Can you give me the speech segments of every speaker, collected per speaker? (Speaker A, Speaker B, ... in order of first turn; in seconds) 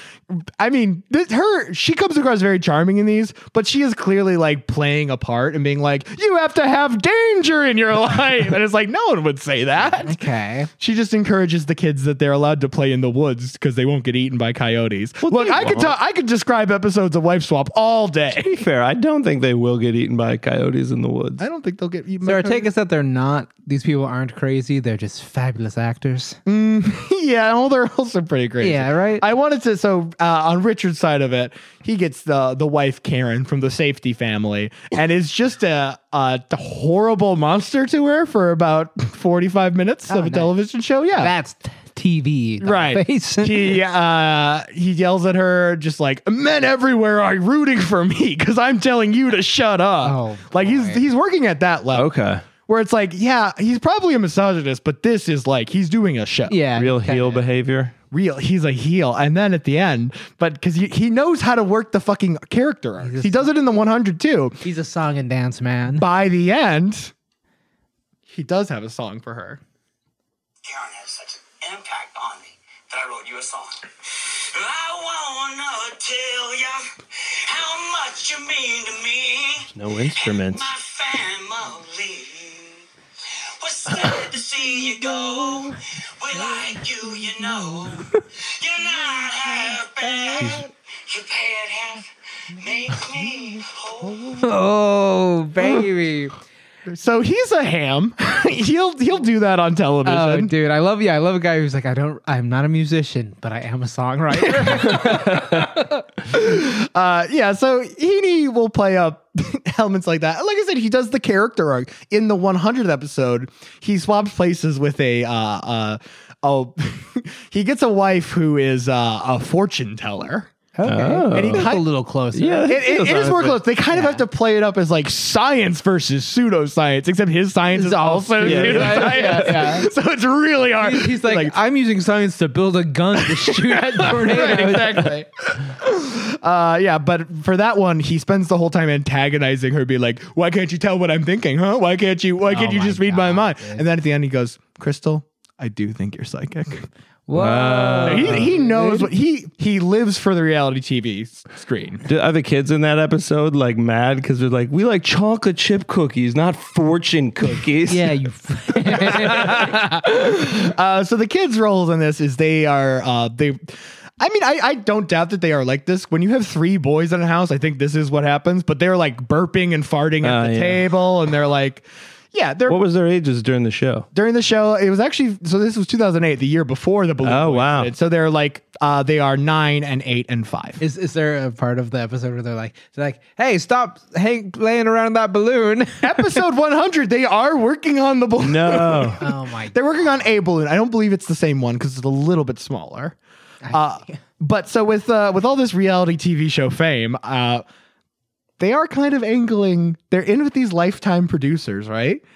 Speaker A: 0.3-10.2, 10.8-18.6, 21.4-22.7, 26.4-41.3, 42.6-52.1, 52.7-56.6, 58.1-64.6, 66.0-67.1, 68.3-69.6, 96.9-100.5, 104.5-105.7, 106.3-120.5, 121.3-121.8, 122.7-131.5, 133.4-146.9, 148.0-152.0, 159.1-172.8, 174.1-180.8, 186.0-193.2, 193.7-197.6, 198.6-202.2
Speaker B: 10.0-10.7, 22.2-26.4, 28.6-29.2, 40.1-40.5, 41.1-43.8, 50.0-51.0, 56.5-57.4, 63.0-63.5, 64.6-66.0, 94.4-96.3, 100.0-105.5, 120.8-123.2, 123.9-124.2, 127.7-129.9, 130.8-135.1, 142.5-143.8, 147.3-149.1, 157.9-159.8, 180.8-186.4, 189.2-190.3, 193.6-194.2
Speaker C: 15.2-15.9, 18.4-21.4, 51.9-52.4, 56.8-57.9, 79.7-80.7, 105.0-105.6, 120.8-121.7, 122.3-123.6, 128.4-129.5, 147.3-148.5, 152.0-158.1, 170.2-170.8, 172.7-174.1, 177.2-177.9, 188.4-189.2
Speaker D: 70.6-76.8, 77.4-82.8, 83.6-94.3